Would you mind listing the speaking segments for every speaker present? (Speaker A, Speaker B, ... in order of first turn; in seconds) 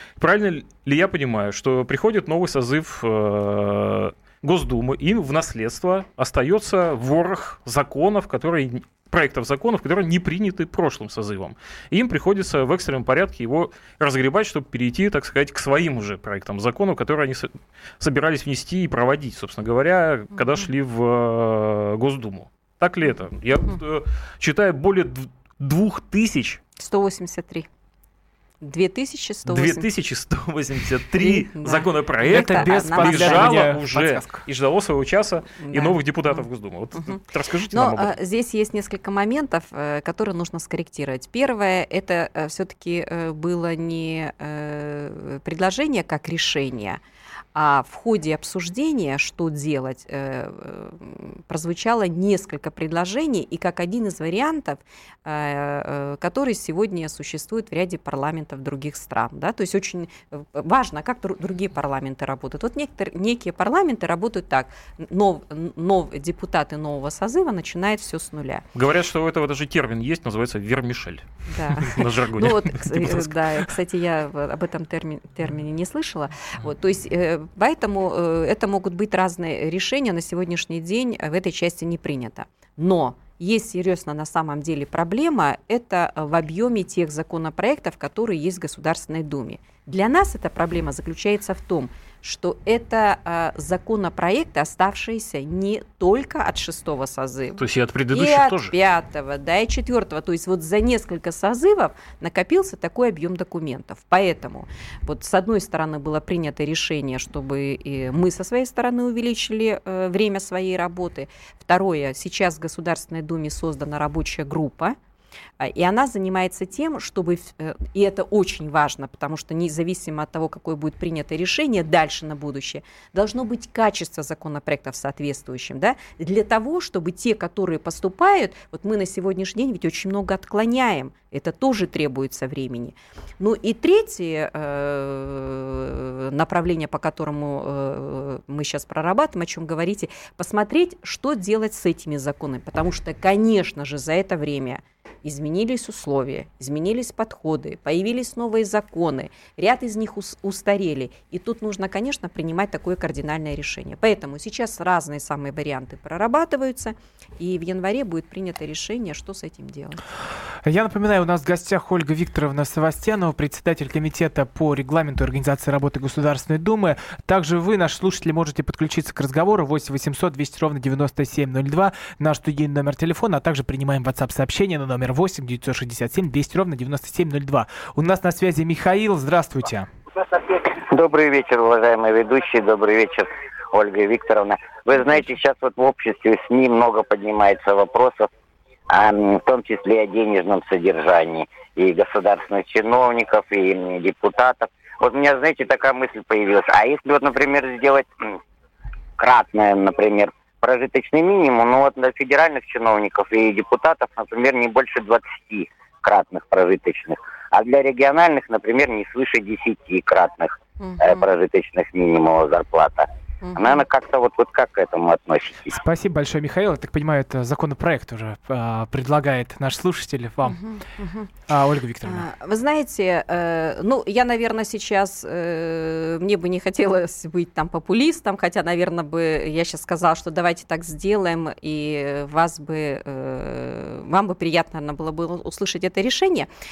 Speaker A: 0.2-26.6, 29.5-38.1, 68.8-73.6, 97.6-98.7
Speaker B: 26.8-27.7, 28.6-29.9, 31.2-33.7, 35.6-36.4, 37.0-47.0, 47.5-68.6, 71.5-115.0, 115.6-160.0, 210.8-211.2, 213.4-213.8, 220.4-221.3, 222.0-236.5
Speaker C: 32.2-34.5, 160.6-179.9, 215.8-220.6, 221.5-222.3
Speaker D: 180.2-188.3, 188.9-198.4, 199.2-215.8